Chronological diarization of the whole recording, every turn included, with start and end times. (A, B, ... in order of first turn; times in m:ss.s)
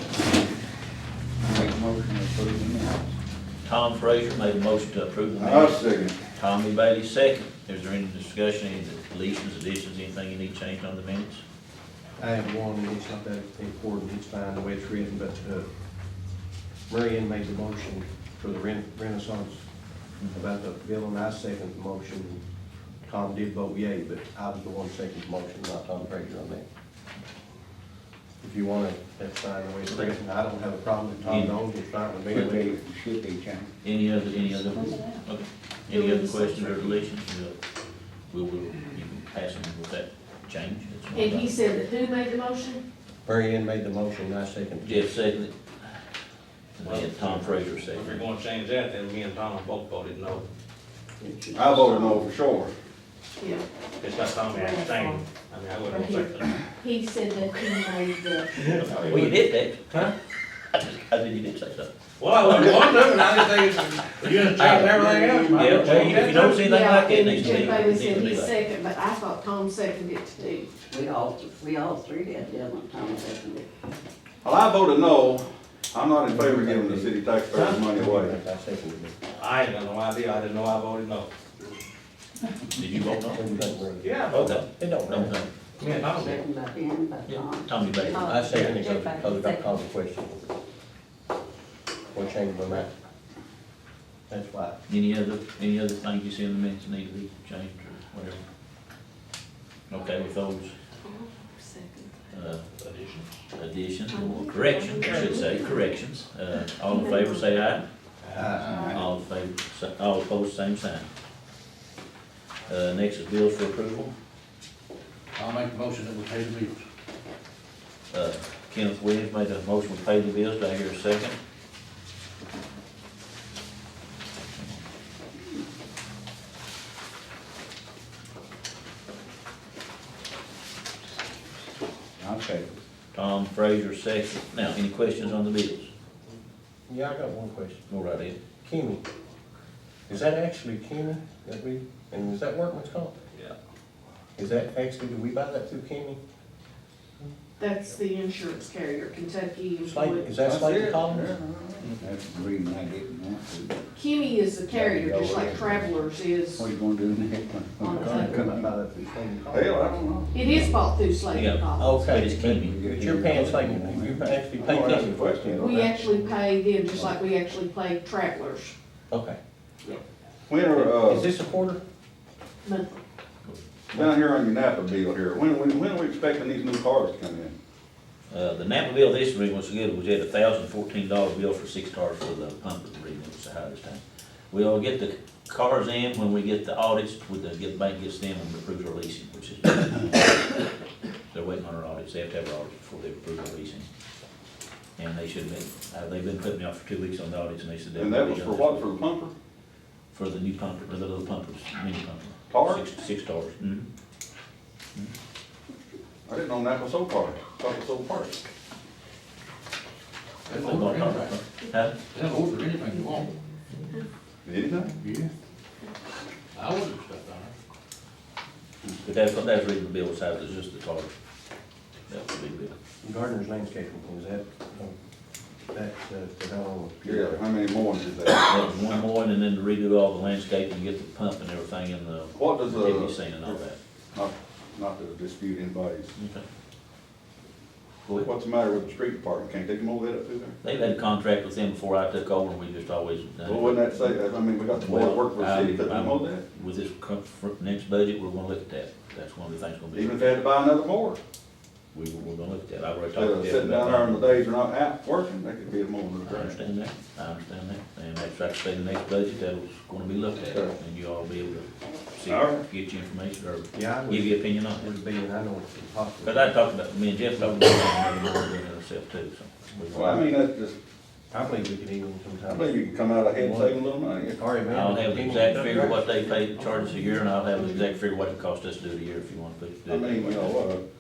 0:01.4-0:03.2 A
0:03.6-0:05.8 B
0:05.4-0:06.2 C
0:06.3-0:11.4 B
0:12.2-0:15.7 D
0:16.9-0:19.6 D
0:20.3-0:22.4 D
0:23.0-0:26.6 D
0:28.4-0:32.7 D
0:29.9-0:30.1 B
0:31.3-0:31.6 B
0:32.3-0:32.6 B
0:32.4-0:33.7 A
0:33.8-0:37.6 B
0:34.7-0:35.1 E
0:35.9-0:36.9 F
0:38.3-0:41.6 B
0:41.1-0:42.8 F
0:43.2-0:45.1 D
0:44.8-0:45.6 B
0:46.8-0:48.3 B
0:46.8-0:50.4 G
0:51.2-0:52.3 E
0:51.5-0:52.7 C
0:51.8-0:52.2 G
0:54.0-0:56.6 G
0:54.5-0:55.0 F
0:55.9-0:58.8 F
0:58.6-1:00.1 G
0:58.8-1:00.1 B
1:00.8-1:03.4 B
1:02.2-1:06.5 G
1:04.2-1:06.7 H
1:04.6-1:05.0 B
1:04.9-1:06.3 E
1:05.6-1:08.6 B
1:06.3-1:10.7 F
1:10.9-1:13.7 E
1:14.4-1:18.4 C
1:16.3-1:19.2 D
1:19.4-1:21.3 G
1:22.7-1:23.5 B
1:23.3-1:25.4 D
1:24.0-1:24.6 G
1:24.3-1:25.5 B
1:25.8-1:26.5 G
1:25.9-1:29.8 E
1:27.3-1:28.7 B
1:28.2-1:30.4 D
1:28.5-1:28.8 G
1:32.1-1:32.9 D
1:34.3-1:34.8 D
1:34.9-1:38.4 B
1:39.9-1:40.7 B
1:41.0-1:42.1 F
1:42.3-1:42.7 B
1:43.5-1:47.9 B
1:44.1-1:45.7 F
1:46.9-1:47.4 F
1:48.2-1:48.9 D
1:48.9-1:51.1 B
1:52.7-1:54.1 B
1:55.4-1:56.8 H
1:58.1-2:01.4 B
2:12.2-2:12.7 A
2:13.1-2:15.9 B
2:16.9-2:17.8 D
2:17.9-2:18.4 B
2:18.6-2:19.0 D
2:20.1-2:23.1 D
2:24.4-2:26.2 D
2:27.6-2:30.3 F
2:29.9-2:31.4 D
2:30.4-2:32.0 C
2:32.0-2:33.8 A
2:33.9-2:36.7 F
2:34.7-2:35.9 A
2:36.6-2:39.0 A
2:37.8-2:38.4 F
2:38.0-2:39.9 D
2:39.5-2:40.5 C
2:40.3-2:42.0 F
2:41.3-2:43.6 B
2:41.8-2:46.2 D
2:42.6-2:45.8 A
2:44.6-2:45.8 C
2:45.6-2:48.8 F
2:49.1-2:49.4 D
2:50.5-2:51.3 C
2:50.7-2:51.8 D
2:52.6-2:53.0 F
2:53.9-2:57.5 C
2:58.3-3:10.6 B
3:11.3-3:13.9 B
3:15.0-3:18.9 B
3:18.0-3:19.3 C
3:20.1-3:23.9 B
3:22.5-3:22.8 C
3:26.3-3:28.4 C
3:30.5-3:31.9 B
3:30.5-3:31.4 H
3:32.1-3:33.3 H
3:34.4-3:34.9 C
3:35.0-3:35.3 H
3:36.5-3:37.5 H
3:39.0-3:41.1 B
3:42.1-3:42.7 B
3:43.0-3:45.0 D
3:45.7-3:47.4 D
3:47.0-3:48.7 C
3:48.4-3:53.8 B
3:52.3-3:53.6 C
3:54.1-3:56.1 C
3:56.2-3:56.4 B
3:58.2-4:00.6 C
4:00.6-4:04.2 B
4:03.4-4:06.4 C
4:04.7-4:10.4 B
4:09.9-4:11.2 C
4:11.9-4:14.4 B
4:13.1-4:16.6 C
4:16.2-4:24.9 B
4:22.3-4:22.6 C
4:23.7-4:26.6 D
4:26.2-4:30.3 B
4:29.9-4:30.8 C
4:31.3-4:36.1 D
4:32.5-4:34.4 C
4:34.7-4:40.7 B
4:39.9-4:40.8 C